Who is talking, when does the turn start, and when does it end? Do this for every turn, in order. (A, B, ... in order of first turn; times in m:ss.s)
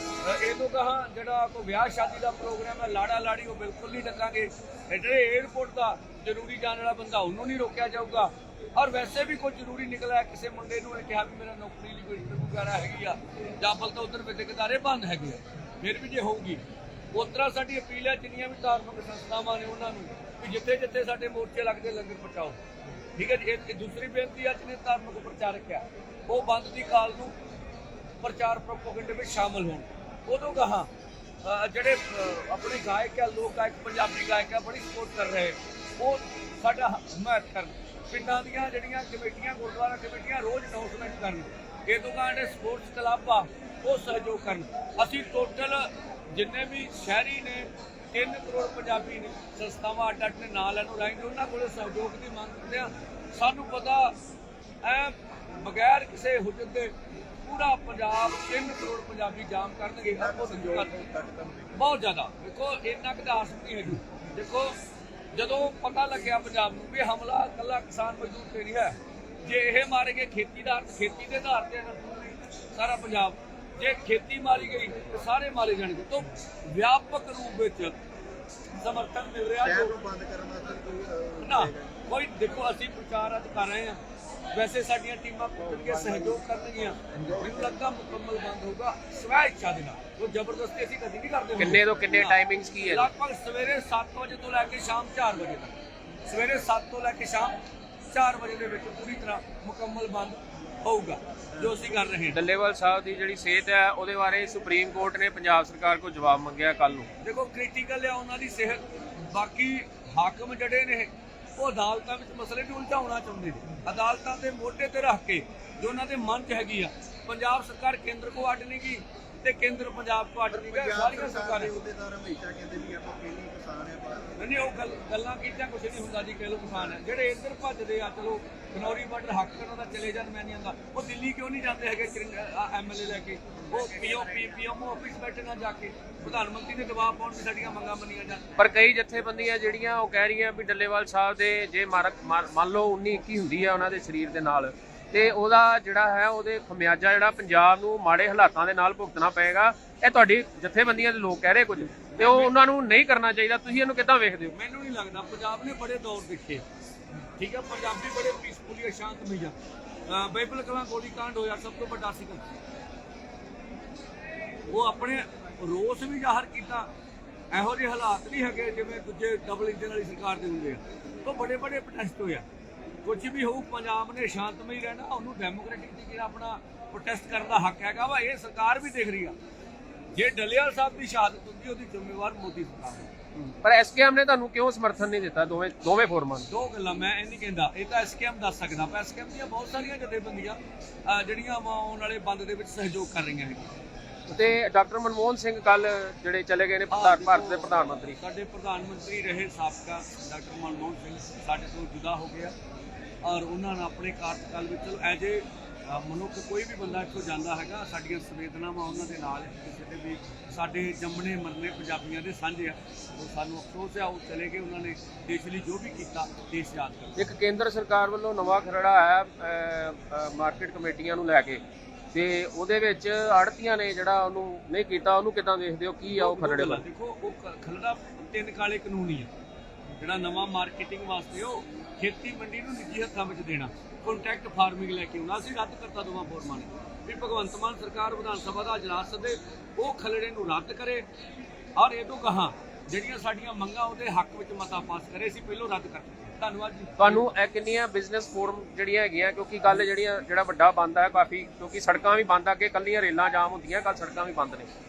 0:00.2-0:16.6 A
0:17.1-0:22.6 A
0:23.2-0:27.4 A
0:28.2-0:30.9 A
0:31.4-0:54.2 A
0:54.8-0:56.9 A
0:57.4-1:01.0 A
1:00.2-1:01.8 B
1:01.7-1:04.8 A
1:05.3-1:18.0 A
1:18.8-1:20.0 A
1:19.6-1:22.0 B
1:21.4-1:24.0 A
1:24.5-1:35.7 A
1:25.7-1:26.4 B
1:27.1-1:27.8 B
1:31.6-1:33.1 C
1:36.3-1:37.6 A
1:38.1-1:42.4 A
1:42.3-1:47.1 C
1:47.2-2:01.7 A
2:00.5-2:04.5 B
2:04.4-2:18.4 A
2:18.6-2:34.5 C
2:32.1-2:32.5 A
2:34.5-2:36.6 A
2:37.4-2:39.6 A
2:40.1-2:42.4 A
2:44.7-2:46.9 A
2:47.5-2:52.4 A
2:53.0-2:59.4 A
3:00.2-3:03.1 A
3:03.4-3:06.5 C
3:06.5-3:13.7 A
3:14.3-3:18.2 C
3:16.9-3:22.5 A
3:23.2-3:37.3 A
3:37.2-3:41.6 C
3:42.1-3:46.8 C
3:46.1-3:49.3 A
3:50.0-4:01.0 A
4:01.8-4:07.2 A
4:07.0-4:14.7 C